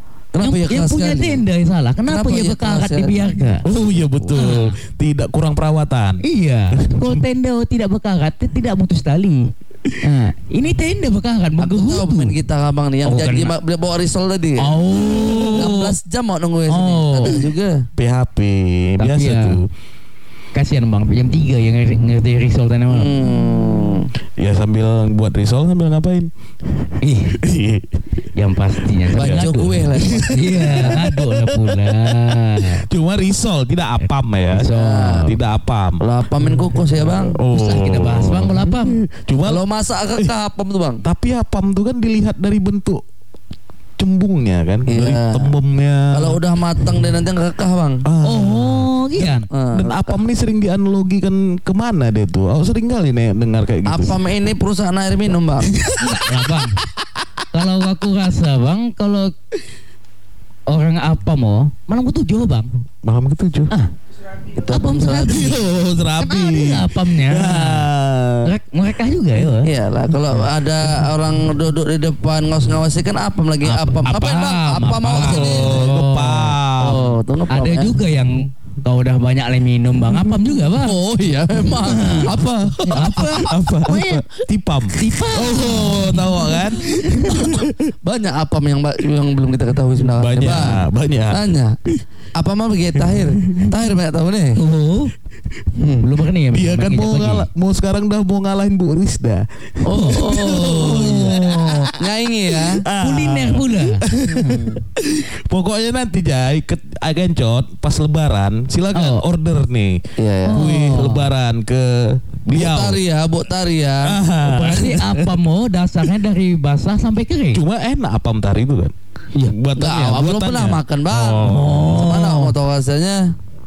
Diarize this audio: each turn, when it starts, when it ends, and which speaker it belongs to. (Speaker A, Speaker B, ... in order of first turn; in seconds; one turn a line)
Speaker A: 0.3-1.4
Speaker B: 0.4-3.6
Speaker A: 2.1-3.3
Speaker C: 3.6-7.2
Speaker B: 4.3-4.8
Speaker B: 6.2-9.5
Speaker B: 10.0-12.3
Speaker A: 11.6-14.8
Speaker B: 13.0-13.5
Speaker B: 14.6-15.9
Speaker C: 15.2-15.5
Speaker A: 15.5-17.9
Speaker B: 16.7-17.4
Speaker C: 18.0-19.7
Speaker B: 19.0-19.6
Speaker B: 20.5-23.1
Speaker A: 22.9-24.1
Speaker C: 24.4-27.9
Speaker B: 27.0-27.4
Speaker B: 28.4-32.8
Speaker C: 29.0-39.6
Speaker A: 29.1-31.0
Speaker B: 34.5-35.3
Speaker A: 34.6-35.3
Speaker A: 36.0-37.4
Speaker B: 37.5-39.0
Speaker A: 39.4-41.0
Speaker C: 41.0-43.0
Speaker C: 44.0-46.4
Speaker A: 44.9-45.5
Speaker A: 46.1-48.0
Speaker C: 48.0-54.2
Speaker B: 48.2-49.5
Speaker A: 49.5-50.2
Speaker A: 53.9-55.7
Speaker C: 55.7-56.9
Speaker B: 56.0-56.8
Speaker B: 57.5-59.3
Speaker B: 60.7-62.7
Speaker C: 63.0-63.7
Speaker A: 64.5-65.6
Speaker B: 64.5-65.6
Speaker C: 65.2-68.5
Speaker B: 66.2-67.9
Speaker B: 68.4-69.7
Speaker A: 69.4-75.8
Speaker B: 73.6-76.6
Speaker C: 75.1-77.2
Speaker A: 76.8-77.9
Speaker B: 77.5-81.0
Speaker A: 80.7-84.0
Speaker B: 81.6-82.3
Speaker B: 82.9-84.2
Speaker C: 82.9-87.9
Speaker B: 84.9-87.5
Speaker A: 87.3-91.8
Speaker C: 90.0-92.0
Speaker A: 92.3-94.6
Speaker C: 93.0-93.7
Speaker B: 94.5-95.1
Speaker A: 95.7-96.0
Speaker B: 96.0-97.5
Speaker C: 96.5-113.0
Speaker A: 99.8-101.4
Speaker B: 99.9-101.9
Speaker A: 102.0-102.8
Speaker B: 103.0-104.0
Speaker A: 104.3-104.8
Speaker B: 108.9-109.2
Speaker A: 110.2-110.7
Speaker B: 110.4-111.2
Speaker A: 112.5-114.2
Speaker C: 114.0-115.3
Speaker B: 114.4-117.6
Speaker C: 117.5-118.9
Speaker C: 119.5-122.0
Speaker A: 119.8-123.3
Speaker B: 121.4-122.5